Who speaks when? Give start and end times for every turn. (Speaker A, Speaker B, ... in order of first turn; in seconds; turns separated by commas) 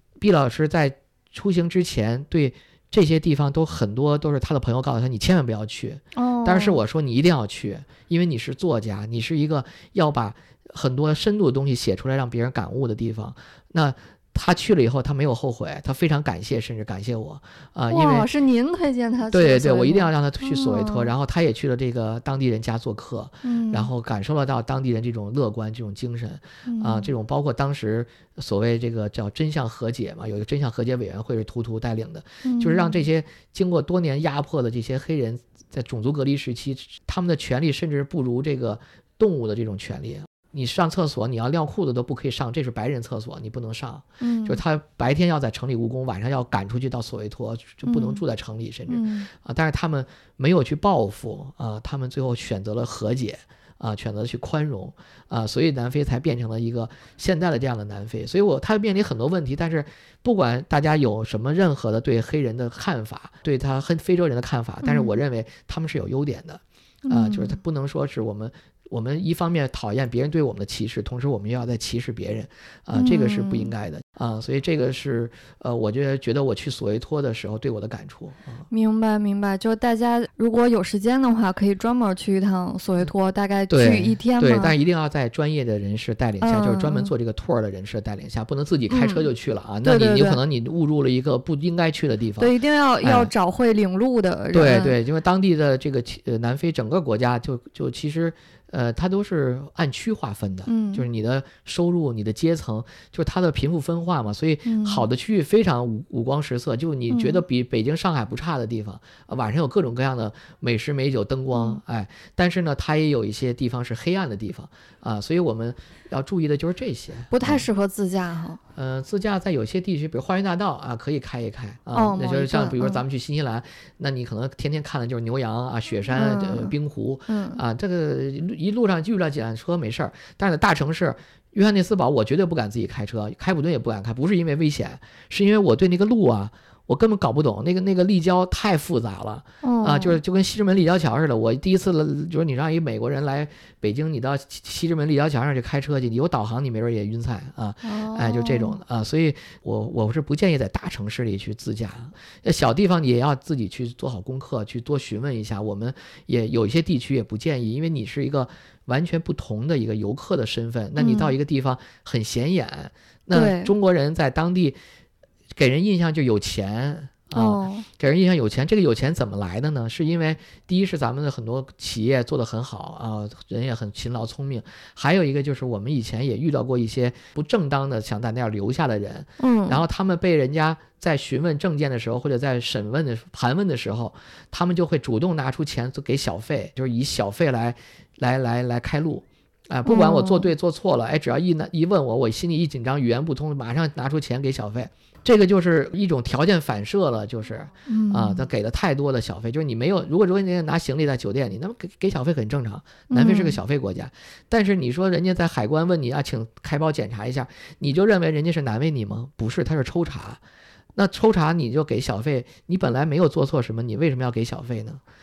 Speaker A: 0.2-18.3, Speaker B: 6.2-6.8, Speaker B: 17.9-21.1, Speaker A: 19.3-78.7, Speaker B: 23.4-23.9, Speaker B: 26.7-27.1, Speaker B: 32.4-33.0, Speaker B: 44.2-44.6, Speaker B: 47.9-48.2, Speaker B: 48.9-49.3, Speaker B: 64.8-65.1, Speaker B: 67.0-67.6, Speaker B: 72.9-73.7, Speaker B: 78.7-84.8, Speaker A: 83.7-93.3, Speaker B: 86.4-87.1, Speaker B: 88.9-89.3, Speaker B: 89.8-90.4, Speaker B: 92.4-95.0, Speaker A: 94.5-117.7, Speaker B: 100.7-101.0, Speaker B: 104.7-105.1, Speaker B: 107.1-107.4, Speaker B: 111.5-111.8, Speaker B: 117.3-118.6, Speaker A: 118.8-164.8, Speaker B: 121.9-123.0, Speaker B: 126.1-126.7, Speaker B: 127.3-127.6, Speaker B: 139.6-140.2, Speaker B: 147.8-148.8, Speaker B: 161.0-161.4, Speaker B: 163.3-163.7, Speaker A: 165.5-210.4, Speaker B: 167.3-167.9, Speaker B: 179.4-179.8, Speaker B: 189.9-190.5, Speaker B: 197.9-198.5, Speaker B: 203.1-203.6, Speaker A: 210.9-215.0